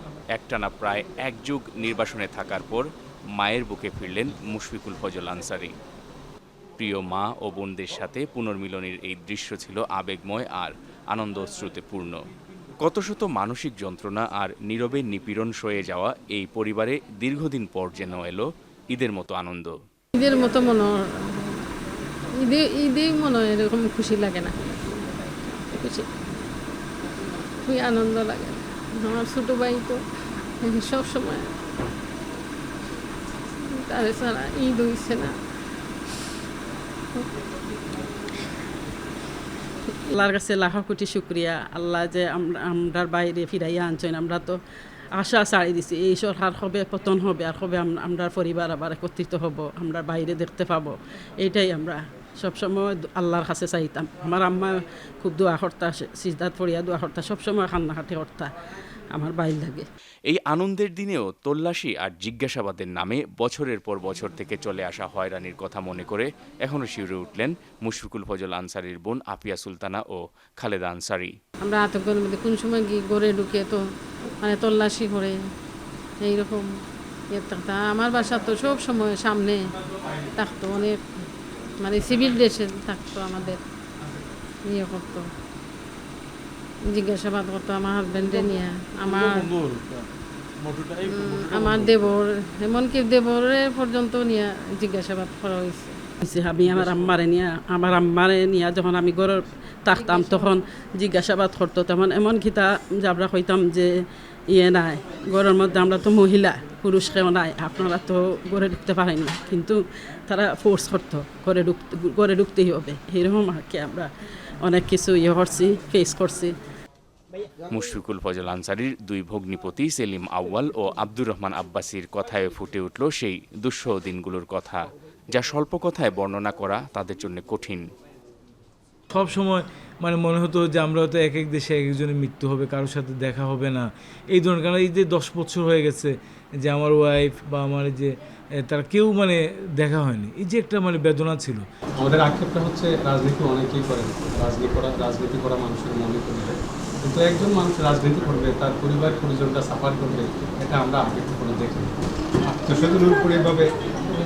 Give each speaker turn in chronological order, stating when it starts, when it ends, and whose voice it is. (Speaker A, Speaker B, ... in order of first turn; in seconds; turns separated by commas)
Speaker A: 0.3-2.9, Speaker A: 3.4-5.7, Speaker A: 6.8-12.2, Speaker A: 12.8-19.7, Speaker B: 20.2-21.6, Speaker B: 22.4-24.8, Speaker B: 25.4-26.1, Speaker B: 27.6-30.0, Speaker B: 30.6-31.5, Speaker B: 33.7-35.3, Speaker C: 40.1-44.6, Speaker C: 45.1-58.5, Speaker C: 59.1-59.9, Speaker A: 60.3-71.3, Speaker B: 71.6-73.8, Speaker B: 74.4-75.3, Speaker B: 76.2-76.7, Speaker B: 77.3-79.6, Speaker B: 80.4-81.0, Speaker B: 81.8-83.6, Speaker B: 84.7-85.2, Speaker B: 86.9-89.5, Speaker B: 91.0-96.0, Speaker C: 96.2-103.9, Speaker B: 100.0-100.6, Speaker C: 104.5-114.1, Speaker C: 114.6-116.5, Speaker A: 117.7-127.8, Speaker D: 129.1-141.7, Speaker E: 142.0-151.9, Speaker E: 152.5-153.7